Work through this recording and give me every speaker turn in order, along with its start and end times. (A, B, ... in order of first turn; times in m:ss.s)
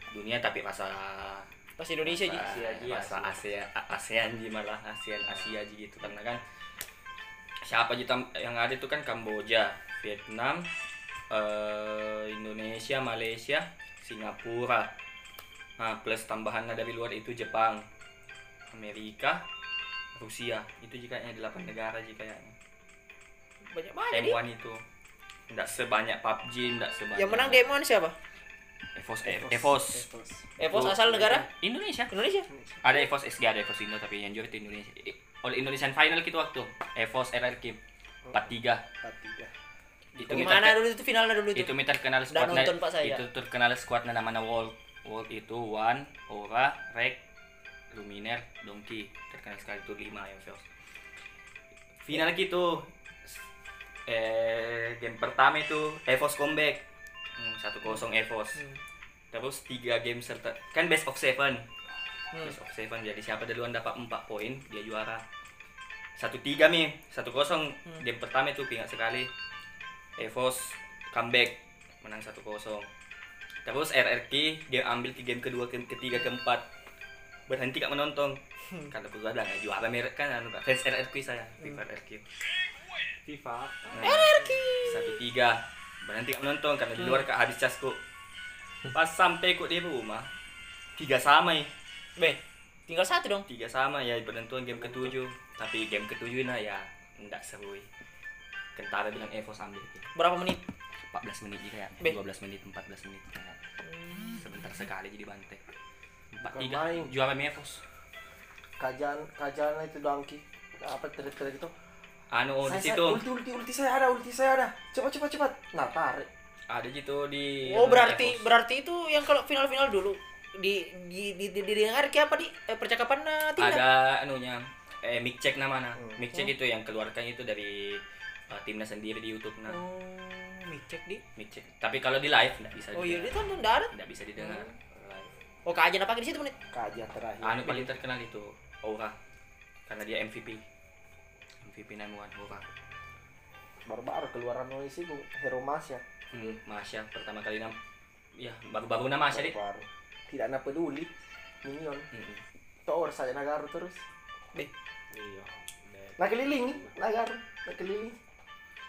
0:00.1-0:01.5 A
0:01.8-0:02.6 B
0:02.0-0:06.4 A
0:02.3-0:03.4 C
0:05.2-0:05.6 C
0:07.6-0:10.7 A
0:11.3-0:14.9 A
0:15.8-0:17.8 A
0:18.7-0:19.4 A
0:20.1-0:22.5 A
0:23.7-0:24.4 B
0:24.1-0:24.8 A
0:25.5-0:27.7 A
0:27.2-0:28.2 B
0:28.9-0:30.1 A
0:29.2-0:30.5 D
0:30.6-0:31.5 B
0:30.6-0:32.1 A
0:32.1-0:32.5 B
0:32.5-0:32.8 D
0:32.8-0:37.8 A
0:38.2-0:39.5 D
0:38.3-0:38.8 A
0:40.2-0:40.9 A
0:40.2-0:40.6 D
0:40.2-0:41.7 B
0:41.5-0:47.2 A
0:42.3-0:43.2 B
0:47.9-0:50.7 A
0:52.0-0:53.4 A
0:54.1-0:56.8 A
0:57.4-0:58.6 A
0:59.3-1:01.7 A
1:02.4-1:05.2 A
1:06.2-1:09.3 A
1:10.2-1:12.9 A
1:13.6-1:16.7 A
1:17.5-1:22.2 A
1:23.2-1:24.2 C
1:23.9-1:28.0 A
1:24.0-1:25.2 B
1:28.9-1:30.3 A
1:31.0-1:31.7 A
1:32.2-1:33.4 B
1:33.5-1:37.9 A
1:38.8-1:40.1 A
1:40.1-1:40.6 B
1:41.1-1:43.6 A
1:43.8-1:44.3 B
1:44.3-1:45.6 A
1:46.3-1:47.8 A
1:46.4-1:47.1 D
1:48.8-1:51.7 D
1:52.3-1:53.2 A
1:52.6-1:56.3 D
1:56.7-1:58.5 A
1:57.6-2:03.8 B
2:03.6-2:09.8 A
2:09.7-2:11.2 B
2:11.4-2:15.3 A
2:12.9-2:14.7 B
2:15.6-2:16.6 B
2:16.7-2:17.9 D
2:17.4-2:19.2 A
2:19.9-2:20.6 A
2:21.6-2:22.6 A
2:23.9-2:26.0 D
2:26.3-2:27.8 A
2:28.4-2:29.6 A
2:29.3-2:31.1 D
2:31.6-2:32.1 D
2:32.1-2:32.4 A
2:32.9-2:34.0 D
2:35.1-2:37.0 C
2:36.2-2:38.2 D